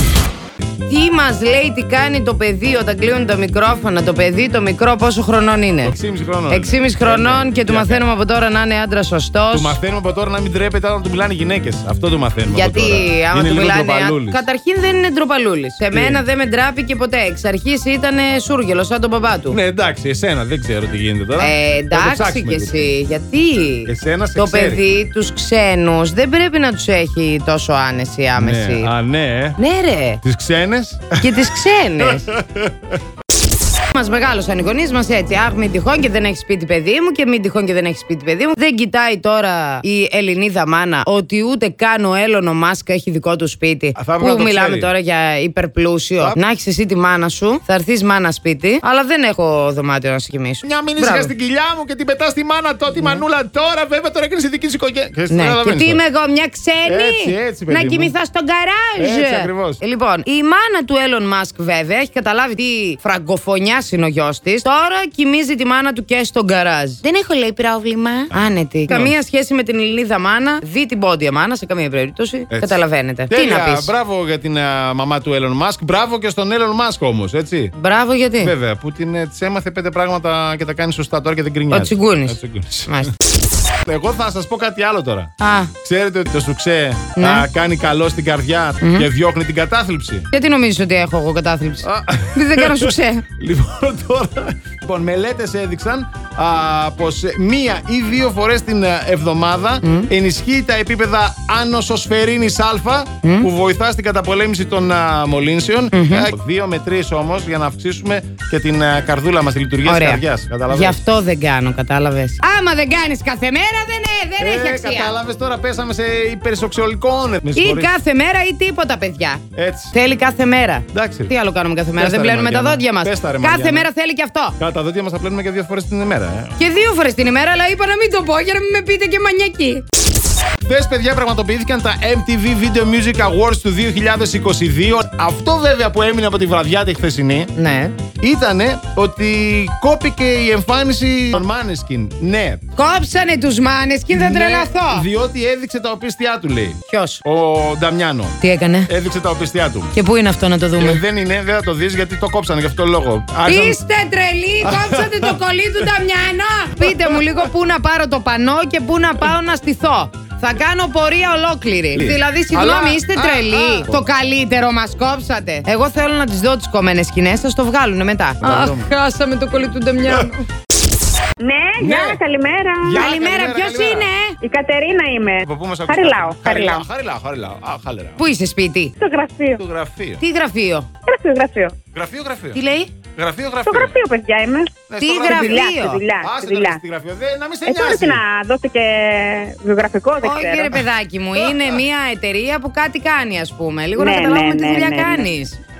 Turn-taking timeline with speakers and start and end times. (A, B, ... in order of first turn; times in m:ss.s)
0:00.8-0:05.9 A
0:05.8-0:08.0 B
0:06.5-0:09.8 A
0:09.5-0:14.4 B
0:12.5-0:19.6 A
0:15.9-0:16.2 B
0:19.5-0:22.9 B
0:21.4-0:28.9 A
0:23.9-0:24.8 B
0:28.4-0:29.6 B
0:29.6-0:30.2 A
0:30.2-0:33.0 B
0:31.2-0:32.3 A
0:33.9-0:51.3 A
0:44.0-0:44.9 B
0:50.6-0:56.0 B
0:52.9-0:53.2 A
0:55.3-1:13.9 A
0:56.8-0:58.1 B
0:59.0-0:59.8 B
1:08.9-1:09.1 B
1:12.5-1:17.7 B
1:17.8-1:18.5 A
1:18.4-1:23.0 B
1:21.7-1:23.1 A
1:23.8-1:30.3 B
1:25.4-1:25.7 A
1:27.2-1:27.4 A
1:28.8-1:29.1 A
1:30.3-1:33.2 A
1:31.8-1:51.0 B
1:39.8-1:40.1 A
1:43.2-1:43.5 A
1:45.9-1:46.3 A
1:49.8-1:55.1 A
1:54.4-1:57.9 B
1:57.5-2:04.6 A
1:59.5-1:59.9 B
2:00.9-2:01.3 B
2:02.0-2:03.9 B
2:04.6-2:06.5 B
2:06.6-2:09.8 A
2:10.6-2:17.5 B
2:17.5-2:17.9 A
2:18.2-2:22.6 B
2:22.8-2:25.1 A
2:24.1-2:30.0 B
2:26.9-2:27.2 A
2:28.4-2:28.9 A
2:29.9-2:31.0 A
2:30.8-2:33.8 B
2:33.4-2:50.4 A
2:34.6-2:35.4 B
2:36.8-2:37.5 B
2:41.9-2:44.0 B
2:48.4-2:48.9 B
2:51.4-2:53.1 C
2:51.8-2:52.2 B
2:52.8-2:54.1 B
2:52.9-2:54.4 A
2:54.4-2:56.8 C
2:55.4-2:58.2 B
2:58.2-2:58.9 A
2:59.0-2:59.6 C
2:59.6-3:00.2 B
3:00.2-3:00.9 A
3:01.1-3:01.8 C
3:01.9-3:02.6 B
3:02.5-3:02.9 A
3:03.1-3:04.0 B
3:03.7-3:06.8 C
3:04.9-3:08.2 B
3:05.0-3:06.0 A
3:07.6-3:10.8 C
3:10.2-3:15.6 A
3:11.4-3:11.8 B
3:14.0-3:15.2 C